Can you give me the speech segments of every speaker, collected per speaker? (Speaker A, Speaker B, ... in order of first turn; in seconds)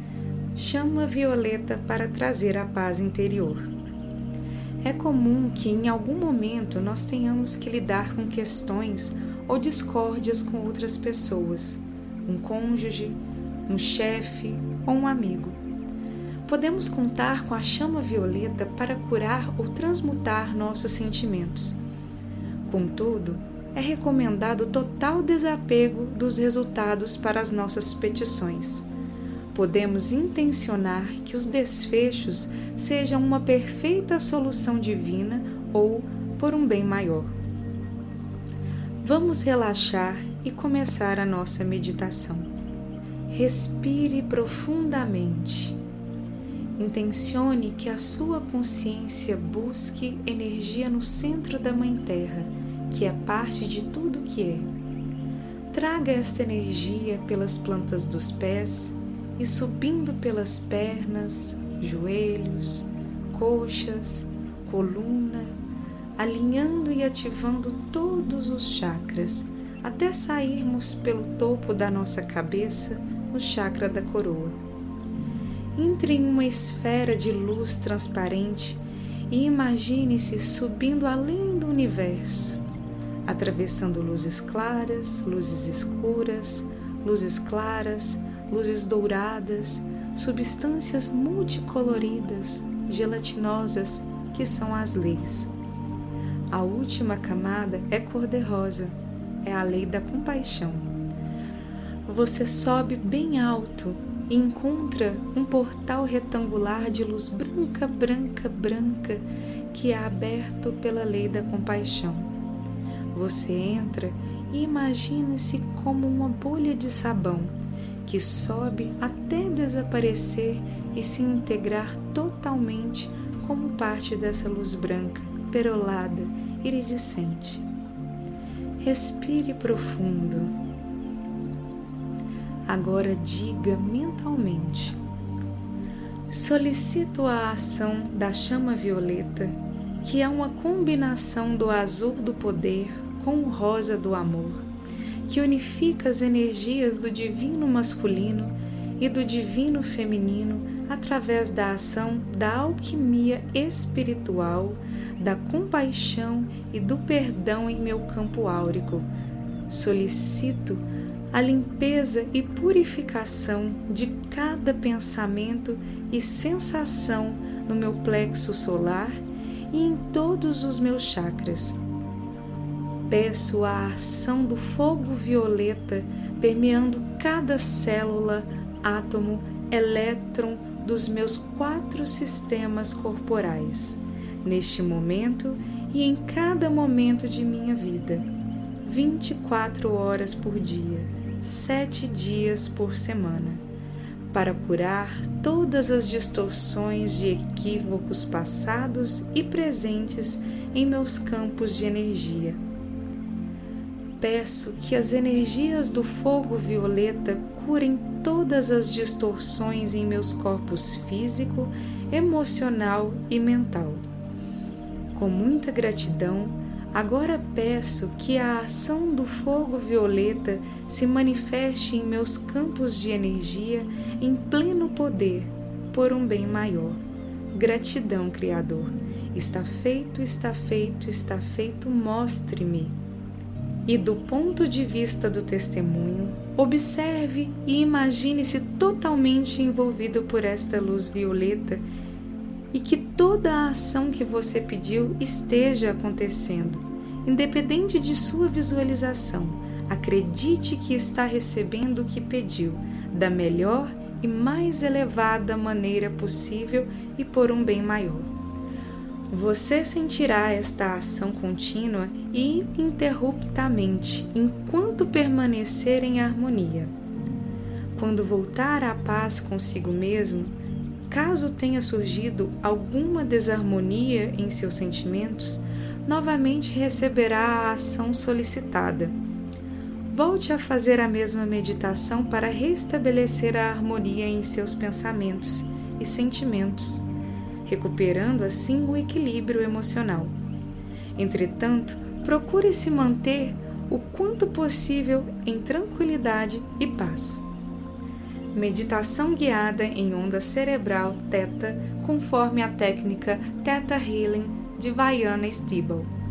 Speaker A: 0.6-3.7, 4.8-15.6, 16.5-21.8, 22.6-28.9, 29.5-37.3, 39.0-42.5, 43.3-45.8, 46.8-54.7, 55.7-65.6, 66.2-74.6, 75.8-82.6, 83.2-95.5, 96.5-101.0, 102.1-112.3, 113.1-127.7, 128.8-130.5, 132.7-135.0, 136.3-144.6, 145.3-159.1, 159.7-171.8, 173.1-188.3, 188.8-193.6, 194.3-202.6, 204.2-214.0, 215.1-227.0, 227.5-232.9, 233.9-241.8, 242.7-258.3, 259.3-266.9, 267.9-270.5, 271.1-279.1, 280.1-287.1, 287.6-290.3, 291.2-297.4, 298.5-306.1